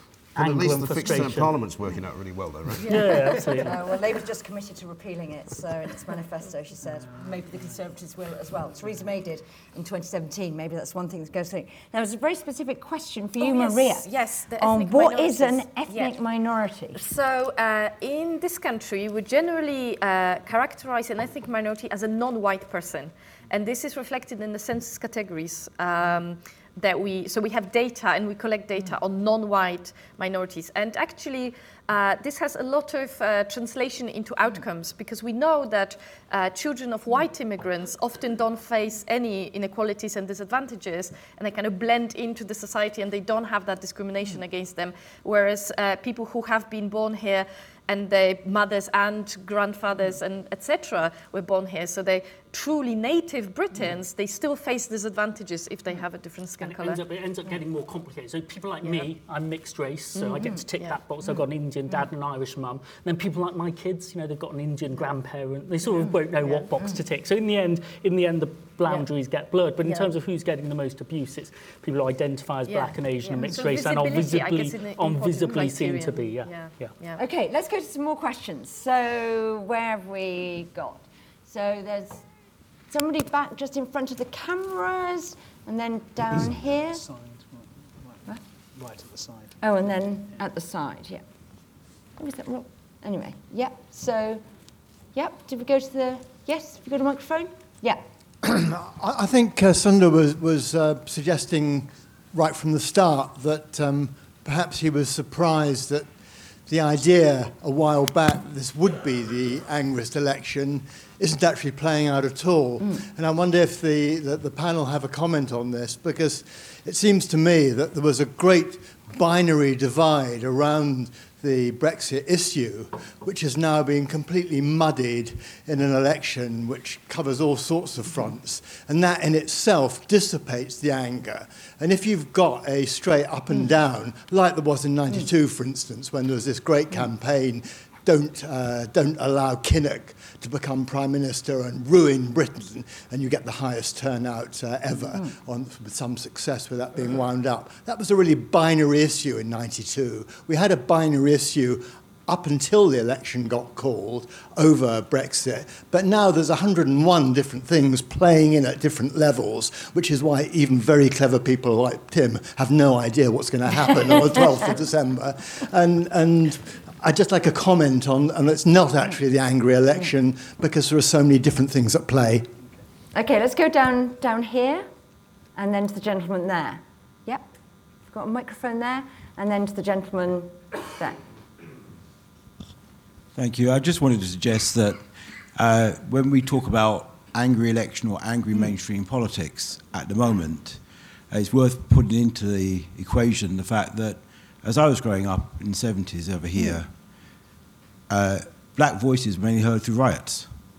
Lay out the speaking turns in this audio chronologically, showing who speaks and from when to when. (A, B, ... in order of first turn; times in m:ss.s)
0:00.3-0:01.5 A
0:00.4-0:03.2 B
0:02.8-0:03.7 A
0:03.6-0:14.0 C
0:13.4-0:16.2 D
0:14.6-0:17.0 C
0:17.0-0:57.0 D
0:56.6-1:16.9 A
1:00.2-1:01.0 D
1:06.4-1:06.7 D
1:09.8-1:10.1 D
1:12.7-1:17.2 D
1:17.2-1:22.3 C
1:22.9-1:27.0 C
1:26.9-1:29.6 E
1:29.6-1:31.2 C
1:32.2-1:34.4 C
1:35.1-1:38.0 C
1:38.4-1:46.1 F
1:46.6-2:52.5 F
2:53.1-2:54.9 C
2:55.6-2:57.4 C
2:58.1-3:01.2 C
3:03.3-3:16.9 G
3:18.1-3:20.6 G